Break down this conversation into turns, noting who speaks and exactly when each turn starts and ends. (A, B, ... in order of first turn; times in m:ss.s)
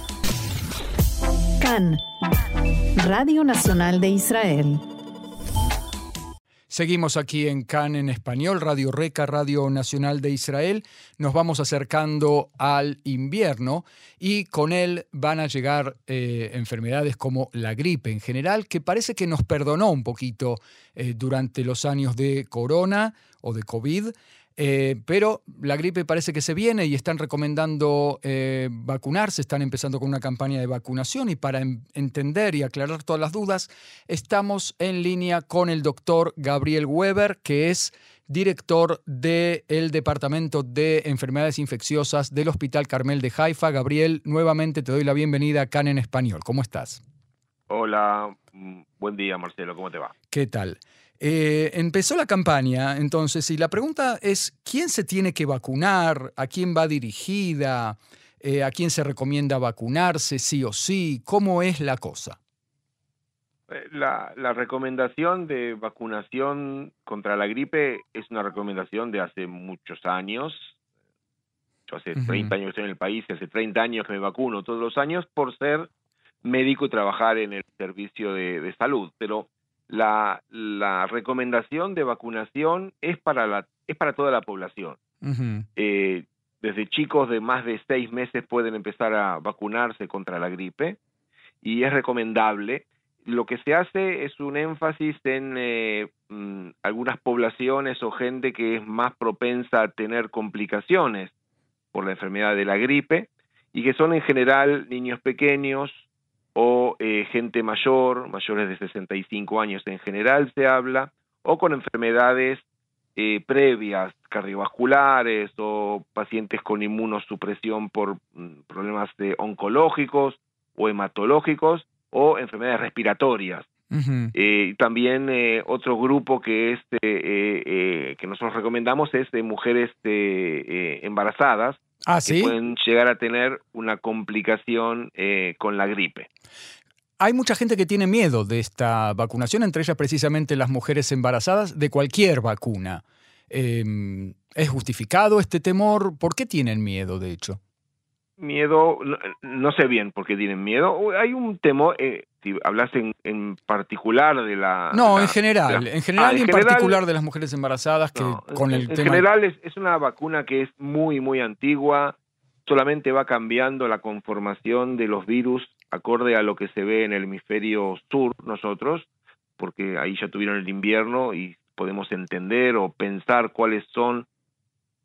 0:01.6-0:02.0 A
0:03.0-0:04.8 A
0:06.7-0:47.0 B
0:47.7-0:50.1 C
0:50.3-1:02.4 B
1:03.7-1:10.7 C
1:11.9-1:15.9 C
1:12.1-1:12.5 B
1:16.4-1:25.0 C
1:25.2-1:25.6 B
1:25.8-1:31.0 C
1:31.6-1:41.3 C
1:41.9-1:46.0 C
1:46.5-1:52.6 C
1:53.1-2:03.7 C
2:03.9-2:04.3 B
2:04.3-2:16.3 C
2:12.0-2:12.5 B
2:17.2-2:27.6 B
2:28.4-2:37.0 C
2:34.9-2:39.2 B
2:38.2-2:54.3 C